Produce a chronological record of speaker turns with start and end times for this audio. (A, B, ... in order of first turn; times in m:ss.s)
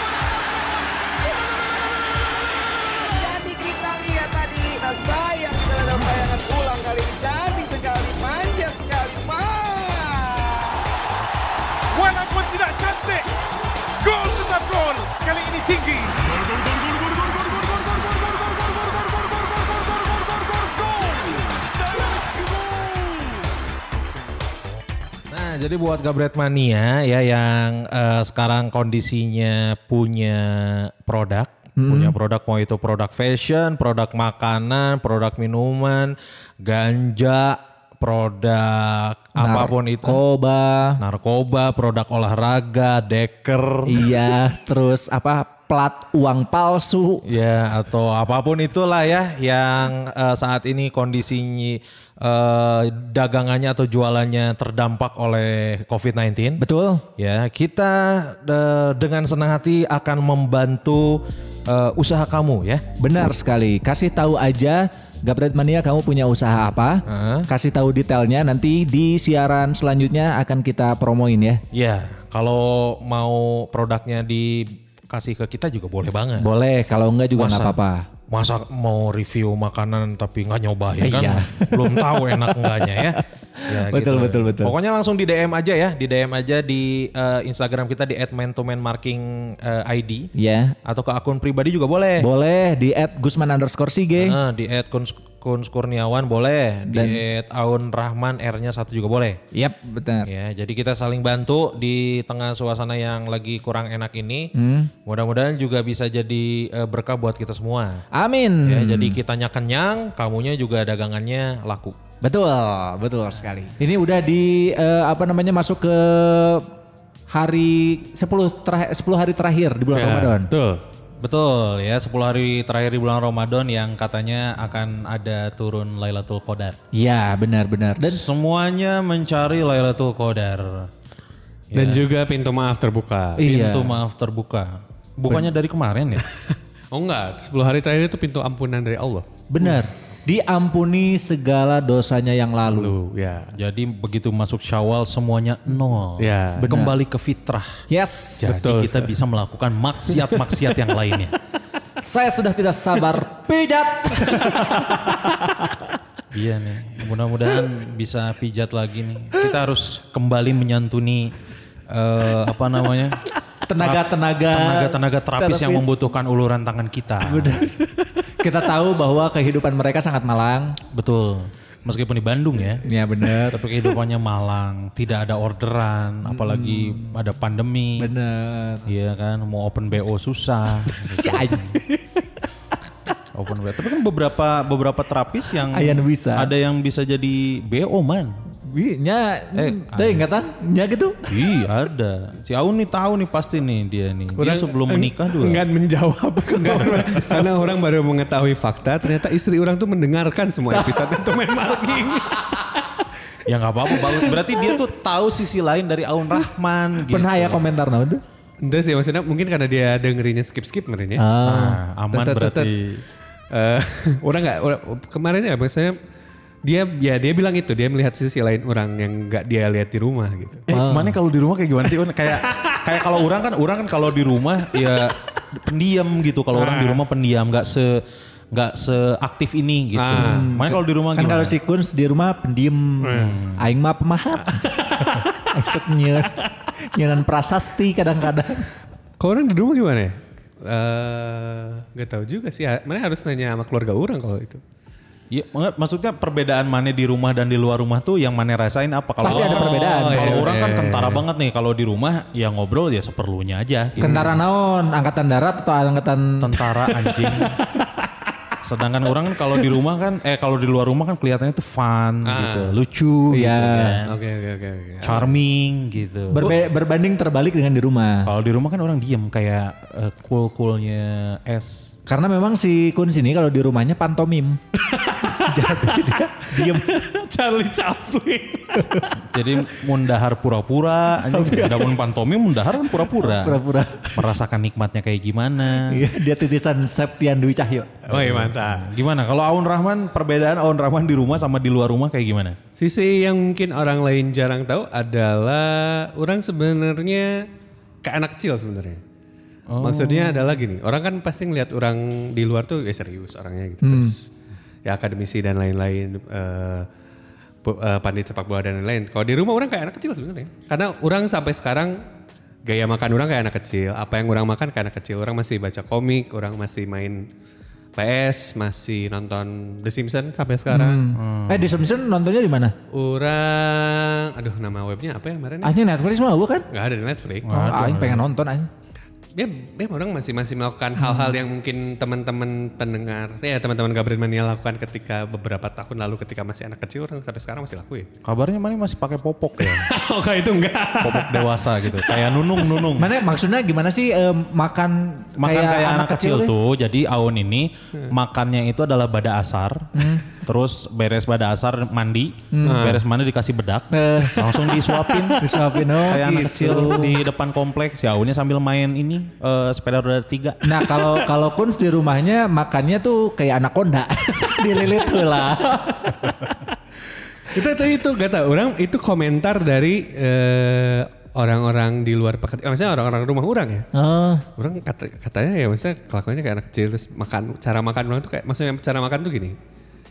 0:03.1-0:10.9 A
0:11.9-0:13.2 A
0:12.0-0:13.3 B
0:14.0-0:23.4 B
0:14.2-0:15.6 A
0:18.8-0:19.8 A
0:22.0-0:22.5 A
0:25.3-0:40.2 C
0:31.8-0:32.1 D
0:39.4-0:41.0 D
0:41.0-0:44.1 C
0:43.8-0:47.2 D
0:47.2-0:56.6 C
0:56.6-0:57.0 D
0:57.2-1:02.8 C
1:03.0-1:11.6 D
1:07.1-1:07.5 C
1:11.7-1:16.5 C
1:16.4-1:18.1 D
1:17.4-1:17.8 C
1:18.3-1:30.3 C
1:21.0-1:24.7 D
1:30.4-1:30.8 D
1:30.8-1:32.3 C
1:32.2-1:34.4 D
1:34.2-1:39.4 C
1:36.9-1:37.2 D
1:39.5-1:40.3 D
1:40.2-1:44.5 C
1:44.5-1:44.9 D
1:45.0-1:48.1 C
1:48.1-1:49.2 D
1:48.6-1:52.0 C
1:52.2-1:56.7 D
1:57.3-2:00.5 D
1:59.9-2:00.8 E
2:01.2-2:06.8 C
2:06.9-2:08.2 D
2:08.0-2:10.9 C
2:11.7-2:12.0 C
2:11.7-2:13.5 E
2:13.4-2:14.0 D
2:13.4-2:16.2 C
2:16.2-2:19.3 E
2:19.5-2:22.9 D
2:22.7-2:23.5 E
2:23.5-2:27.8 C
2:26.2-2:26.7 E
2:26.7-2:26.9 D
2:27.9-2:28.6 D
2:28.4-2:31.4 C
2:28.4-2:29.1 E
2:32.0-2:35.8 D
2:36.3-2:41.3 C
2:41.9-2:43.2 C
2:43.7-2:46.0 D
2:43.8-2:47.7 C
2:47.2-2:50.8 D
2:50.9-2:52.8 C
2:52.8-2:53.7 D
2:53.4-2:58.1 C
2:56.3-2:57.1 D
2:58.0-2:58.9 D
2:58.8-3:01.8 C
3:01.1-3:01.8 D
3:03.3-3:08.4 C
3:05.7-3:06.5 D
3:08.7-3:11.3 D
3:09.6-3:10.2 C
3:11.3-3:15.6 C
3:14.4-3:22.9 E
3:16.6-3:17.5 D
3:23.5-3:27.7 C
3:27.0-3:28.2 D
3:28.6-3:31.2 E
3:31.2-3:31.8 D
3:31.4-3:33.0 C
3:32.1-3:32.7 E
3:33.5-3:36.0 E
3:36.6-3:40.7 E
3:40.7-3:51.6 C
3:40.7-3:41.2 D
3:42.4-3:42.8 E
3:46.6-3:47.0 E
3:50.0-3:50.5 E
3:50.2-3:58.7 D
3:53.0-3:53.4 E
3:53.1-3:53.6 C
3:54.7-3:55.3 E
3:59.2-4:04.6 E
4:05.3-4:14.4 C
4:09.2-4:10.5 D
4:09.2-4:11.2 E
4:14.0-4:16.5 D
4:16.4-4:17.6 C
4:17.1-4:17.6 E
4:18.6-4:24.2 C
4:22.2-4:22.8 E
4:23.3-4:24.0 D
4:24.0-4:25.4 E
4:25.0-4:26.5 C
4:26.3-4:28.3 D
4:28.2-4:31.9 C
4:32.1-4:34.6 D
4:34.8-4:38.9 E
4:35.4-4:36.9 D
4:38.7-4:39.1 D
4:39.2-4:43.6 C
4:41.3-4:41.9 D
4:43.1-4:44.1 D
4:44.1-4:46.1 C
4:45.8-4:47.9 D
4:48.1-4:48.9 E
4:48.1-4:52.6 C
4:52.8-4:57.5 E
4:58.0-4:59.0 E
4:59.7-5:00.6 C
4:59.8-5:04.3 E
5:03.8-5:04.2 D
5:04.8-5:06.9 E
5:07.6-5:12.0 E
5:12.6-5:17.3 E
5:18.0-5:21.0 E
5:20.7-5:22.8 D
5:21.1-5:21.8 C
5:22.9-5:25.7 E
5:25.6-5:26.7 D
5:26.7-5:27.5 E
5:27.4-5:28.3 C
5:27.5-5:28.7 D
5:29.4-5:38.1 E
5:31.0-5:31.4 D
5:38.2-5:39.9 C
5:39.6-5:42.9 E
5:41.0-5:43.1 C
5:43.0-5:46.5 D
5:45.4-6:00.6 C
5:50.0-5:50.3 D
5:52.5-5:52.8 D
5:52.6-5:53.0 E
5:53.9-5:54.5 D
5:55.0-5:55.3 E
5:55.4-5:57.2 D
6:00.6-6:06.5 D
6:00.9-6:01.2 E
6:07.4-6:13.9 E
6:13.9-6:14.4 D
6:14.6-6:19.6 E